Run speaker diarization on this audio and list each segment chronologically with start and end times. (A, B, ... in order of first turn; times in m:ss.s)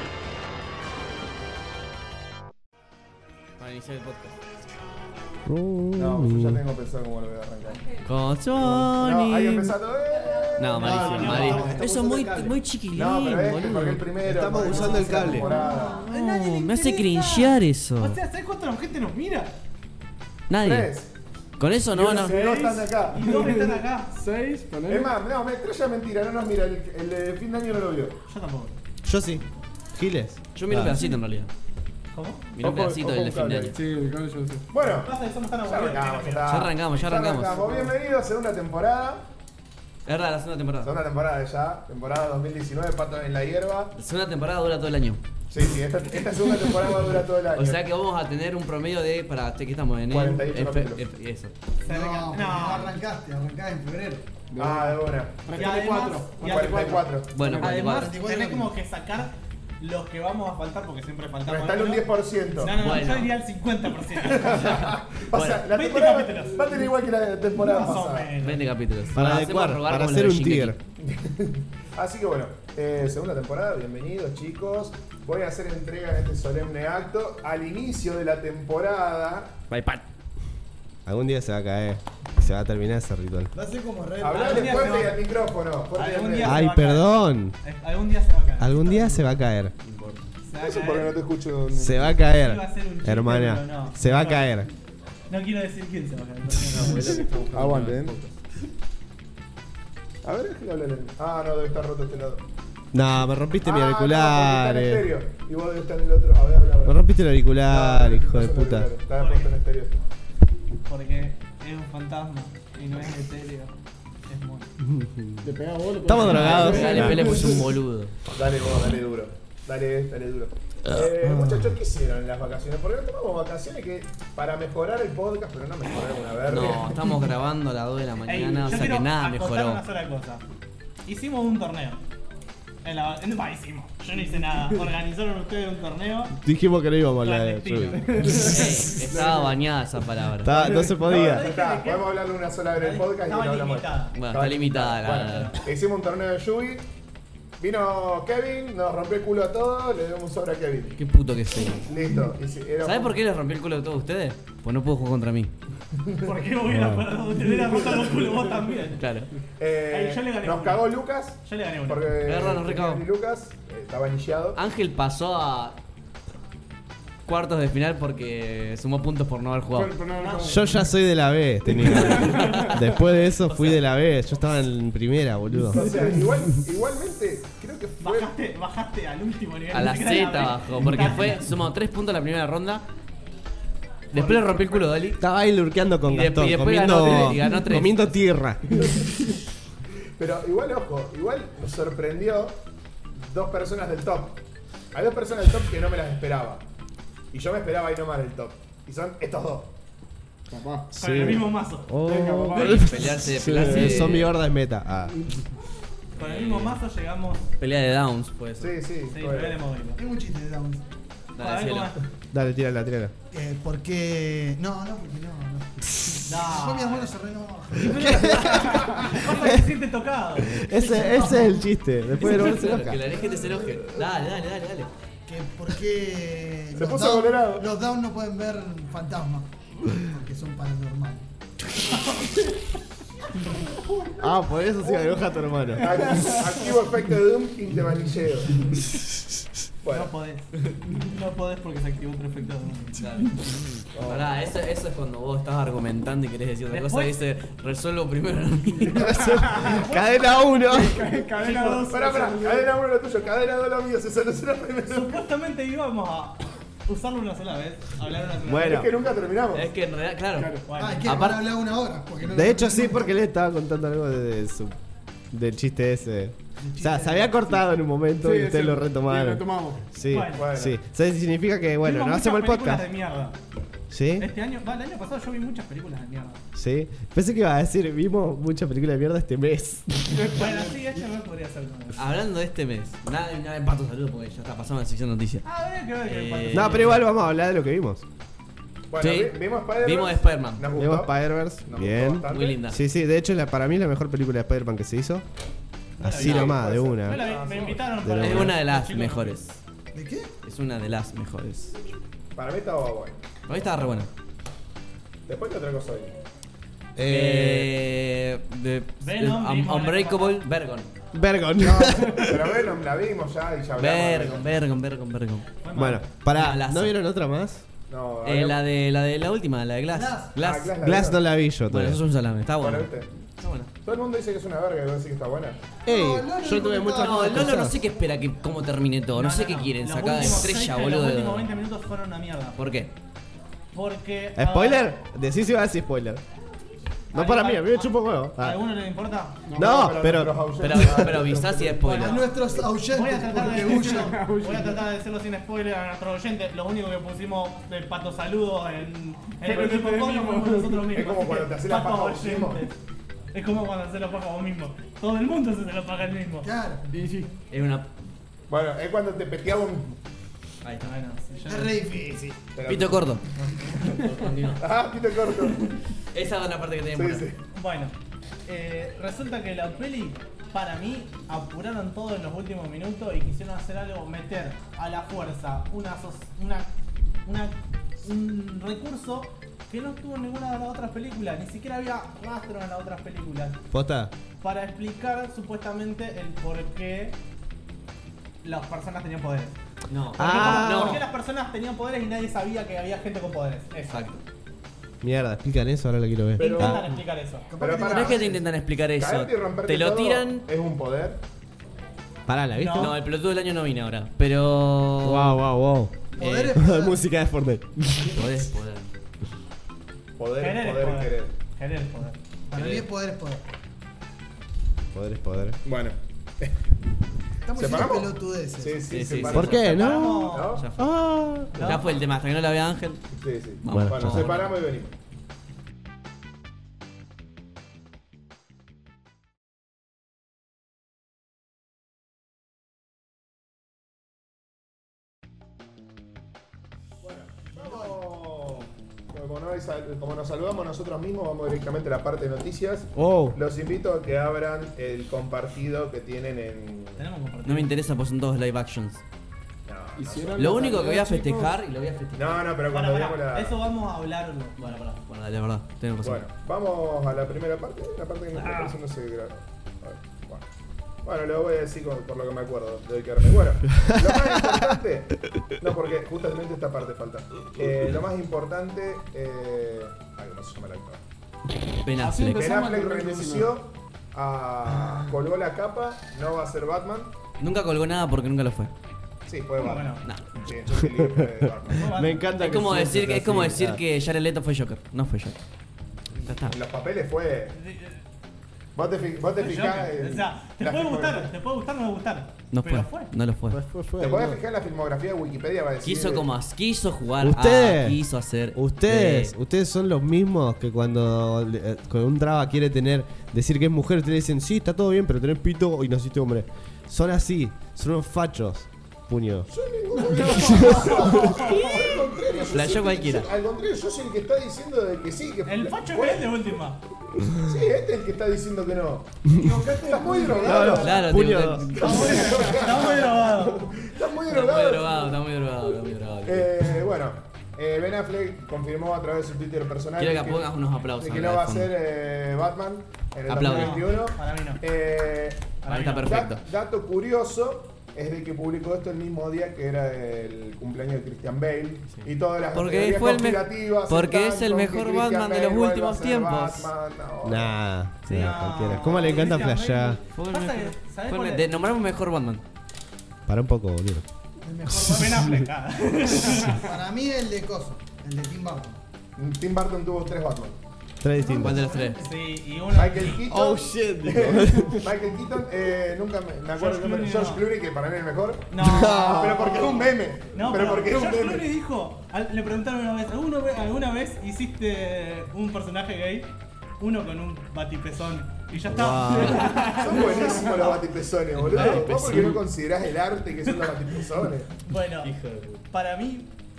0:03.6-0:04.3 A
0:05.4-0:06.6 B
0:06.0-0:07.9 C
0:08.0-0:09.8 A
0:08.6-0:16.0 C
0:10.6-0:14.1 A
0:10.8-0:11.6 B
0:10.8-0:12.0 D
0:11.4-0:11.8 E
0:14.2-0:15.5 B
0:14.6-0:19.5 D
0:15.8-0:18.2 A
0:20.5-0:20.9 A
0:20.6-0:21.1 C
0:21.6-0:22.4 A
0:21.9-0:23.3 C
0:22.4-0:22.7 E
0:22.4-0:24.1 D
0:23.2-0:25.1 E
0:24.9-0:28.2 C
0:28.2-0:28.8 D
0:29.0-0:31.0 B
0:30.5-0:31.5 A
0:30.8-0:31.1 D
0:32.1-0:32.4 D
0:32.5-0:33.7 A
0:32.6-0:33.8 C
0:33.7-0:34.7 E
0:34.7-0:35.1 C
0:35.0-0:36.5 D
0:35.6-0:39.2 C
0:36.5-0:37.7 A
0:40.0-0:40.9 A
0:40.8-0:43.9 C
0:44.0-0:45.2 A
0:45.5-0:47.8 C
0:47.5-0:51.5 A
0:50.1-0:51.0 C
0:51.8-0:52.9 D
0:51.8-0:54.5 F
0:54.5-0:57.9 E
0:54.6-0:55.7 C
0:55.5-0:56.4 D
0:56.4-0:57.3 C
0:57.3-0:58.1 A
0:57.6-1:04.8 D
0:57.9-0:58.7 F
1:01.4-1:02.8 C
1:02.7-1:03.3 A
1:04.2-1:08.3 C
1:04.4-1:05.6 A
1:05.6-1:06.6 D
1:07.6-1:08.6 D
1:08.4-1:10.8 A
1:09.1-1:10.8 B
1:11.0-1:19.6 C
1:19.7-1:20.0 B
1:21.0-1:23.5 B
1:23.5-1:25.1 F
1:24.2-1:26.6 C
1:24.3-1:25.2 D
1:25.9-1:29.3 D
1:26.4-1:27.6 B
1:28.6-1:29.7 B
1:29.8-1:30.2 A
1:30.4-1:31.2 D
1:30.6-1:32.2 C
1:31.7-1:34.7 B
1:32.3-1:34.5 D
1:35.3-1:37.2 D
1:36.7-1:38.3 A
1:37.5-1:38.2 C
1:40.2-1:42.4 C
1:42.9-1:45.1 B
1:43.6-1:47.0 C
1:46.8-1:48.9 B
1:47.6-1:50.0 C
1:49.2-1:49.5 D
1:50.8-1:53.7 D
1:54.3-1:54.7 D
1:54.8-1:55.5 B
1:55.4-1:57.6 E
1:56.0-1:57.6 B
1:56.1-1:58.1 A
1:56.3-1:57.3 C
1:58.3-2:07.0 C
2:01.0-2:01.7 B
2:06.5-2:09.8 A
2:08.2-2:10.4 D
2:11.0-2:12.0 D
2:12.8-2:16.4 D
2:16.4-2:18.4 B
2:17.2-2:18.1 D
2:18.0-2:19.6 E
2:18.4-2:20.9 A
2:20.4-2:21.5 B
2:20.5-2:21.0 E
2:21.0-2:26.8 C
2:21.0-2:22.1 D
2:22.8-2:24.2 D
2:24.1-2:25.6 A
2:25.3-2:25.6 D
2:27.6-2:31.0 C
2:31.0-2:31.9 A
2:31.8-2:33.2 C
2:32.8-2:35.5 A
2:36.0-2:36.3 C
2:36.2-2:39.0 D
2:36.7-2:37.1 B
2:39.0-2:39.3 A
2:39.6-2:44.6 C
2:39.9-2:40.9 D
2:41.4-2:42.1 D
2:42.2-2:43.0 A
2:44.5-2:45.8 A
2:47.2-2:50.0 A
2:49.7-2:50.8 E
2:50.2-2:50.6 D
2:50.4-2:55.9 B
2:51.8-2:52.7 E
2:53.5-2:53.8 A
2:55.7-2:58.3 C
2:55.7-2:56.1 E
2:58.0-3:01.5 D
2:59.7-3:02.8 A
3:04.1-3:05.2 A
3:04.1-3:04.5 D
3:04.3-3:04.9 C
3:05.2-3:09.0 B
3:06.1-3:08.1 A
3:10.2-3:12.6 C
3:13.1-3:14.4 C
3:14.9-3:16.6 C
3:17.3-3:19.7 C
3:20.5-3:21.5 E
3:20.9-3:25.2 B
3:21.0-3:21.9 D
3:22.0-3:24.1 E
3:22.5-3:24.3 A
3:26.2-3:26.8 A
3:26.2-3:27.5 D
3:27.6-3:28.8 A
3:28.6-3:29.6 C
3:29.1-3:30.0 D
3:30.0-3:30.8 F
3:31.3-3:32.0 A
3:31.4-3:32.0 D
3:32.3-3:33.1 B
3:33.3-3:39.1 F
3:36.2-3:37.1 D
3:37.8-3:40.7 D
3:37.8-3:39.7 B
3:40.4-3:43.1 B
3:40.8-3:41.7 F
3:42.1-3:44.9 A
3:43.1-3:43.6 F
3:45.3-3:51.3 F
3:46.7-3:47.7 C
3:51.9-3:52.6 D
3:53.5-3:54.2 D
3:54.2-3:56.2 B
3:54.9-3:55.3 D
3:55.8-3:58.7 C
3:59.8-4:00.1 C
3:59.9-4:03.0 D
4:03.0-4:03.4 A
4:03.9-4:04.2 C
4:04.0-4:09.2 A
4:06.7-4:07.1 D
4:08.8-4:11.1 B
4:09.5-4:10.6 D
4:10.6-4:12.6 E
4:11.4-4:12.6 D
4:11.9-4:15.2 C
4:14.9-4:18.9 D
4:18.4-4:18.9 B
4:18.5-4:19.7 C
4:19.5-4:20.5 A
4:20.3-4:20.7 E
4:20.6-4:21.1 D
4:20.7-4:23.1 F
4:21.0-4:21.5 A
4:22.2-4:24.8 B
4:25.3-4:32.8 B
4:26.6-4:27.4 F
4:28.2-4:29.8 E
4:30.1-4:30.5 D
4:30.3-4:30.8 C
4:31.8-4:33.4 D
4:33.9-4:34.3 B
4:34.2-4:36.4 D
4:36.5-4:40.1 B
4:40.1-4:40.8 E
4:40.2-4:42.0 D
4:42.0-4:45.4 A
4:45.4-4:47.1 D
4:46.0-4:47.0 A
4:46.5-4:48.0 B
4:48.9-4:52.6 C
4:49.0-4:50.7 A
4:50.7-4:55.2 B
4:52.3-4:52.8 A
4:56.0-4:59.4 D
4:56.0-4:57.3 B
4:56.2-4:57.8 C
4:57.9-4:58.6 B
4:58.2-4:59.6 A
4:59.9-5:00.3 F
5:00.4-5:01.8 A
5:02.4-5:03.2 C
5:03.4-5:04.1 A
5:05.3-5:06.1 C
5:07.0-5:07.7 B
5:07.0-5:10.9 A
5:09.0-5:10.4 D
5:11.1-5:12.6 B
5:11.6-5:14.5 C
5:13.8-5:15.5 A
5:15.6-5:16.0 D
5:15.7-5:17.7 B
5:16.3-5:17.0 A
5:17.9-5:18.6 C
5:18.2-5:20.8 A
5:19.9-5:20.4 F
5:20.4-5:21.2 C
5:20.8-5:22.0 B
5:21.7-5:23.7 A
5:22.6-5:23.1 C
5:23.8-5:25.6 C
5:25.8-5:27.8 B
5:25.9-5:27.6 F
5:26.8-5:31.5 A
5:29.1-5:32.6 D
5:32.6-5:32.9 A
5:33.7-5:34.9 D
5:34.3-5:36.2 B
5:37.1-5:38.6 B
5:37.1-5:39.4 D
5:39.5-5:39.7 E
5:39.5-5:40.8 B
5:39.6-5:42.1 C
5:40.6-5:42.3 A
5:41.8-5:42.3 D
5:41.9-5:44.2 F
5:42.8-5:52.8 D
5:43.7-5:44.8 E
5:49.4-5:50.9 E
5:50.9-5:52.7 C
5:53.3-5:56.5 D
5:56.4-5:56.9 F
5:56.9-5:57.3 E
5:57.5-5:57.9 A
5:58.5-6:00.0 C
6:00.6-6:00.9 A
6:00.8-6:01.8 D
6:01.4-6:02.4 F
6:02.5-6:03.1 C
6:02.7-6:04.6 A
6:03.4-6:04.1 D
6:04.5-6:05.6 C
6:06.1-6:07.2 A
6:06.9-6:07.4 C
6:07.5-6:07.9 D
6:08.4-6:16.7 D
6:17.2-6:23.6 D
6:23.7-6:24.1 B
6:24.4-6:27.2 D
6:28.4-6:29.6 D
6:29.9-6:31.0 A
6:30.2-6:31.0 B
6:30.2-6:34.1 D
6:33.9-6:34.2 A
6:35.0-6:36.9 B
6:36.4-6:37.5 D
6:36.4-6:36.9 C
6:37.5-6:38.4 F
6:37.6-6:38.4 C
6:37.8-6:40.5 A
6:39.0-6:41.2 C
6:42.3-6:43.0 B
6:42.6-6:42.9 D
6:42.8-6:45.4 A
6:45.0-6:48.0 B
6:46.1-6:47.0 F
6:46.2-6:46.7 A
6:48.0-6:48.9 A
6:50.2-6:51.3 C
6:50.4-6:52.2 D
6:52.5-6:53.4 F
6:52.5-6:52.9 A
6:54.9-6:55.6 B
6:55.6-6:56.6 C
6:57.4-6:58.8 F
6:57.5-7:00.6 C
6:58.9-6:59.8 A
6:59.2-7:01.7 B
6:59.6-7:00.6 D
7:00.5-7:00.9 A
7:01.5-7:01.9 D
7:01.6-7:03.0 A
7:03.2-7:04.9 C
7:03.6-7:04.5 A
7:03.7-7:04.3 B
7:17.0-7:27.0 C
7:22.9-7:23.4 B
7:27.0-7:27.7 D
7:27.4-7:29.0 A
7:29.7-7:30.8 C
7:30.0-7:31.6 E
7:30.4-7:32.4 A
7:32.1-7:33.6 C
7:32.7-7:34.8 D
7:34.6-7:36.2 A
7:36.0-7:40.4 C
7:41.0-7:51.0 C
7:43.9-7:44.7 B
7:51.8-7:52.4 A
7:52.0-7:53.5 E
7:52.2-7:57.1 C
7:57.4-7:58.7 A
7:59.2-8:01.9 C
7:59.6-8:00.0 D
8:00.7-8:01.3 B
8:01.7-8:02.3 D
8:01.8-8:03.8 B
8:02.3-8:05.4 A
8:06.2-8:06.6 A
8:06.3-8:07.6 C
8:07.5-8:08.0 D
8:08.7-8:11.3 C
8:09.4-8:13.1 D
8:12.5-8:13.6 A
8:13.5-8:14.4 B
8:14.0-8:16.3 C
8:15.8-8:19.3 A
8:17.2-8:18.0 B
8:18.5-8:29.5 B
8:29.5-8:36.3 C
8:30.1-8:31.9 D
8:30.6-8:31.1 B
8:32.5-8:33.3 A
8:35.4-8:36.8 D
8:37.4-8:41.0 C
8:39.4-8:40.8 F
8:40.4-8:41.8 B
8:40.7-8:41.7 A
8:41.7-8:45.1 C
8:41.8-8:43.7 D
8:44.2-8:46.5 A
8:46.2-9:07.6 C
8:50.0-8:51.7 A
8:53.3-8:54.0 A
8:53.3-8:54.6 D
8:55.6-8:56.1 D
8:55.7-8:56.4 A
9:02.0-9:06.7 A
9:07.2-9:10.0 B
9:08.1-9:08.3 A
9:08.1-9:11.5 D
9:08.6-9:09.5 C
9:10.1-9:12.4 A
9:13.2-9:14.0 B
9:14.4-9:15.4 F
9:14.7-9:16.6 D
9:16.6-9:18.8 F
9:19.2-9:20.6 C
9:21.0-9:21.7 B
9:21.1-9:22.2 F
9:21.4-9:22.0 A
9:22.0-9:23.2 D
9:22.7-9:28.5 C
9:23.2-9:24.8 B
9:26.5-9:27.4 D
9:28.5-9:29.6 D
9:28.6-9:29.9 B
9:29.1-9:31.5 C
9:30.3-9:40.8 D
9:38.7-9:39.5 B
9:39.2-9:39.5 A
9:39.3-9:40.2 E
9:39.7-9:44.5 C
9:39.9-9:40.7 F
9:41.4-9:42.4 A
9:41.5-9:42.3 D
9:44.6-9:45.1 D
9:45.0-9:45.6 A
9:45.7-9:46.3 D